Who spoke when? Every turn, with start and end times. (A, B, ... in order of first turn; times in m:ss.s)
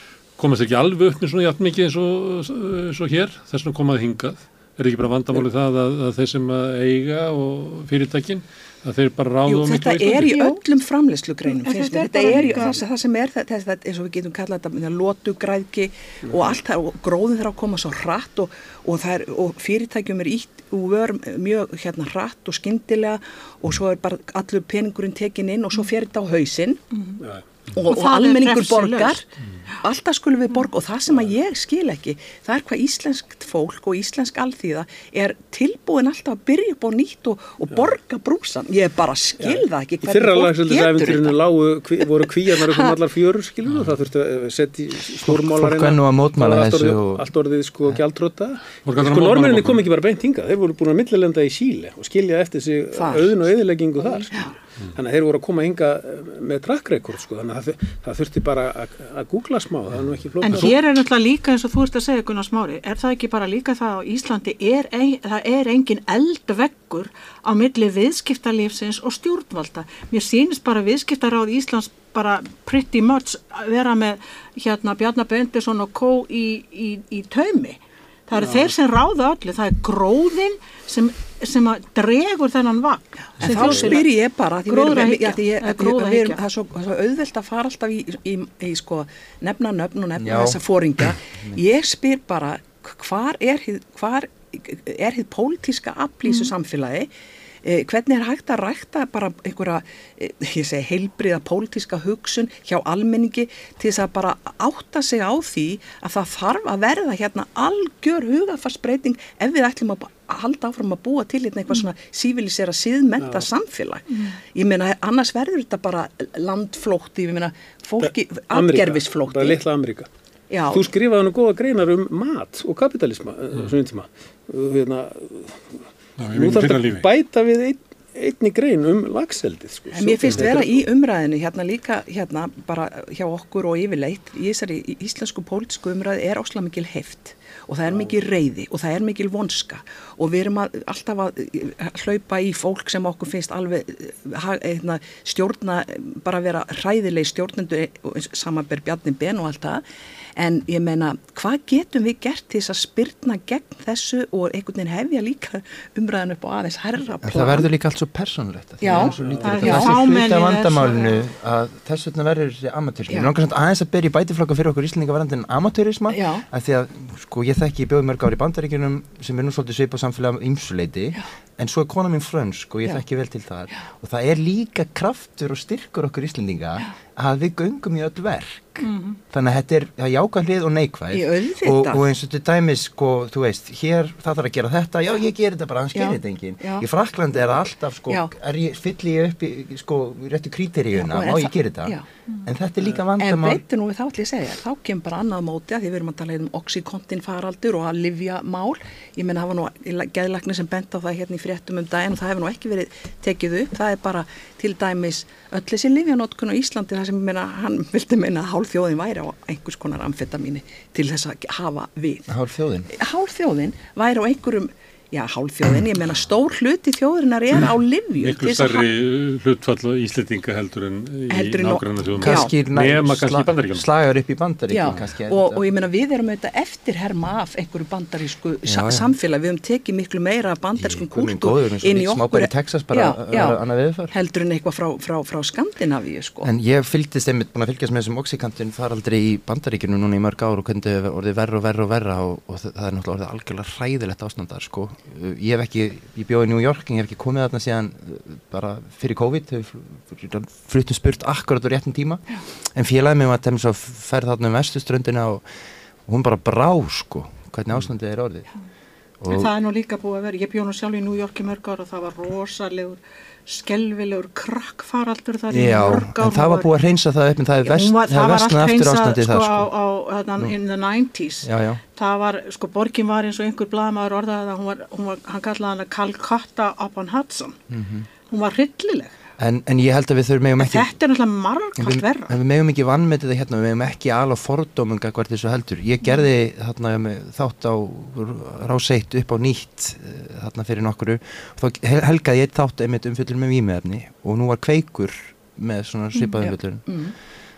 0:00.4-0:10.4 A
0:09.5-0:26.8 B
0:10.3-0:10.6 C
0:11.4-0:12.8 C
0:12.3-0:12.8 D
0:16.2-0:16.6 D
0:26.9-0:27.2 C
0:27.7-0:29.2 B
0:27.9-0:29.7 C
0:29.8-0:41.4 B
0:39.4-1:00.8 D
0:42.6-0:43.0 B
0:43.7-0:43.9 A
0:45.2-0:47.3 E
0:48.8-0:49.9 A
0:52.9-0:53.5 B
0:54.0-0:54.5 B
1:00.4-1:24.1 C
1:18.4-1:18.7 D
1:23.4-1:23.7 E
1:23.4-1:37.1 B
1:24.7-1:26.4 C
1:30.2-1:31.6 E
1:37.6-1:59.6 B
1:53.2-1:53.5 D
1:54.1-1:54.4 C
1:58.0-2:00.1 D
2:00.5-2:00.9 B
2:00.7-2:05.8 D
2:06.2-2:07.1 A
2:06.3-2:10.9 D
2:09.9-2:29.8 B
2:17.9-2:18.2 D
2:30.4-2:37.7 B
2:37.2-3:13.6 E
2:38.8-2:39.9 B
2:38.9-2:41.2 C
2:39.2-2:39.6 D
2:46.1-2:46.4 B
2:58.8-2:59.2 C
3:01.1-3:02.0 B
3:05.9-3:06.8 B
3:10.9-3:12.0 B
3:13.2-3:32.3 B
3:32.3-3:32.9 E
3:32.9-3:38.9 B
3:38.2-3:43.9 A
3:41.3-3:42.5 B
3:42.2-3:45.6 E
3:44.7-3:53.6 B
3:48.7-3:49.1 E
3:50.8-3:54.1 E
3:54.1-3:56.5 B
3:56.4-4:15.4 E
4:16.1-4:18.5 E
4:19.2-4:19.5 E
4:19.3-4:26.7 C
4:25.5-4:29.7 E
4:27.6-4:37.6 C
4:31.4-4:31.8 E
4:37.7-4:38.1 E
4:38.3-4:39.1 C
4:39.4-4:40.9 E
4:40.6-4:42.4 C
4:41.8-4:57.0 E
4:56.4-4:57.1 B